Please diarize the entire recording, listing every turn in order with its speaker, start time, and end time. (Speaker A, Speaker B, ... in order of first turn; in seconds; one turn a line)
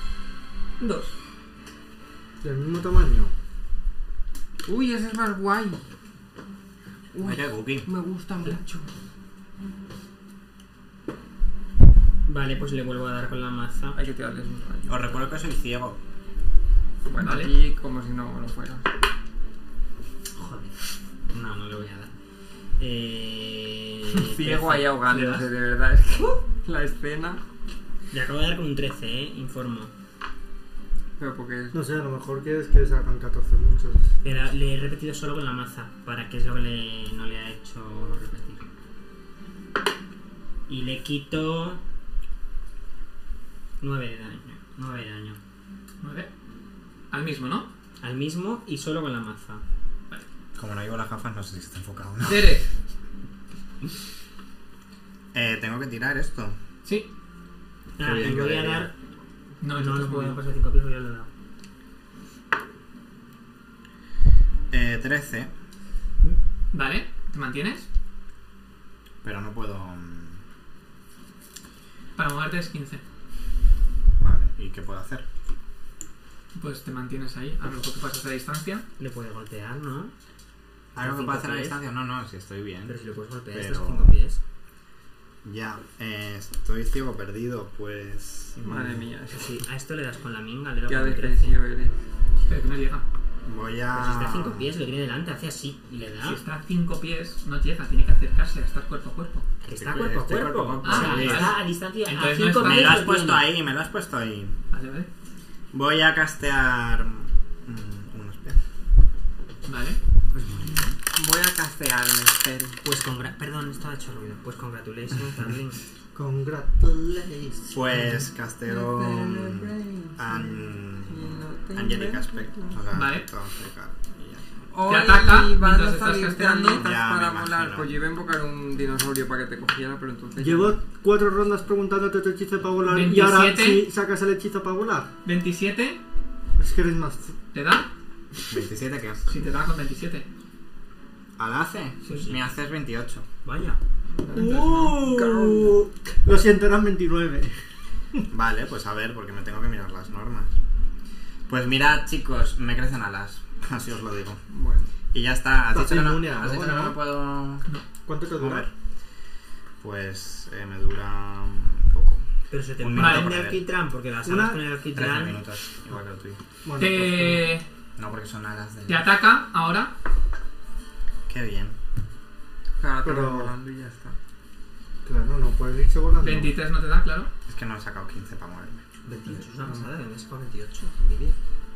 Speaker A: 0.8-1.1
Speaker B: 2.4-3.3
Speaker C: 4.7-5.8
Speaker C: 7.1-8.9
Speaker D: 7.2-7.9
Speaker E: 12.3-14.0
Speaker C: 13.9-15.2
Speaker D: 14.9-16.0
Speaker C: 17.1-18.8
Speaker A: 17.2-17.5
Speaker E: 20.3-20.8
Speaker E: 21.3-22.1
Speaker E: 22.8-25.0
Speaker C: 24.1-27.4
Speaker A: 25.1-25.5
Speaker E: 28.1-29.9
Speaker C: 31.2-31.8
Speaker B: 31.7-34.1
Speaker E: 34.2-38.6
Speaker E: 40.7-41.8
Speaker E: 43.8-45.4
Speaker A: 46.0-46.3
Speaker A: 47.1-47.7
Speaker E: 48.0-49.6
Speaker D: 50.5-52.5
Speaker A: 52.3-52.7
Speaker D: 55.3-56.6
Speaker A: 56.8-57.1
Speaker E: 58.0-58.9
Speaker D: 58.0-58.9
Speaker A: 59.6-60.4
Speaker E: 59.7-61.3
Speaker D: 64.7-65.5
Speaker A: 66.3-67.9
Speaker D: 69.2-70.4
Speaker A: 72.2-73.0
Speaker D: 74.2-75.2
Speaker A: 76.5-78.8
Speaker E: 79.0-80.1
Speaker E: 81.0-81.8
Speaker D: 81.0-83.0
Speaker E: 82.9-84.4
Speaker D: 83.5-84.1
Speaker D: 85.4-89.0
Speaker C: 88.6-89.6
Speaker E: 89.3-91.6
Speaker C: 90.9-92.0
Speaker A: 92.5-93.0
Speaker D: 93.4-94.7
Speaker E: 93.9-96.4
Speaker A: 96.2-99.5
Speaker E: 99.6-103.5
Speaker D: 99.7-101.5
Speaker A: 100.8-103.0
Speaker C: 100.9-101.5
Speaker D: 102.6-104.5
Speaker A: 104.7-105.1
Speaker D: 105.7-108.6
Speaker A: 109.7-110.0
Speaker D: 110.4-110.8
Speaker C: 111.1-112.8
Speaker E: 112.8-115.8
Speaker B: 116.1-118.2
Speaker D: 117.7-124.5
Speaker C: 118.7-122.8
Speaker A: 122.9-123.2
Speaker C: 124.7-130.8
Speaker A: 124.9-126.8
Speaker D: 126.7-127.9
Speaker B: 130.4-135.1
Speaker A: 132.8-133.9
Speaker A: 135.2-136.0
Speaker B: 136.6-137.3
Speaker A: 137.5-137.9
Speaker D: 138.5-139.2
Speaker A: 139.3-140.3
Speaker D: 141.4-143.3
Speaker E: 142.1-142.4
Speaker E: 143.4-143.8
Speaker A: 144.2-145.0
Speaker B: 144.3-147.6
Speaker C: 145.0-145.8
Speaker D: 148.3-150.5
Speaker D: 151.5-154.4
Speaker C: 154.5-154.9
Speaker D: 155.1-157.7
Speaker B: 155.7-157.0
Speaker B: 158.1-158.7
Speaker D: 158.3-158.7
Speaker D: 159.8-162.2
Speaker E: 162.5-165.4
Speaker D: 162.8-163.6
Speaker A: 163.0-163.4
Speaker B: 164.2-164.6
Speaker D: 164.9-166.4
Speaker B: 166.6-167.6
Speaker A: 166.8-167.7
Speaker D: 168.0-169.1
Speaker A: 168.9-169.9
Speaker D: 171.3-171.8
Speaker C: 172.8-174.2
Speaker B: 173.0-173.5
Speaker B: 175.1-176.6
Speaker A: 176.2-177.3
Speaker D: 177.5-178.8
Speaker E: 179.1-181.4
Speaker B: 179.1-179.9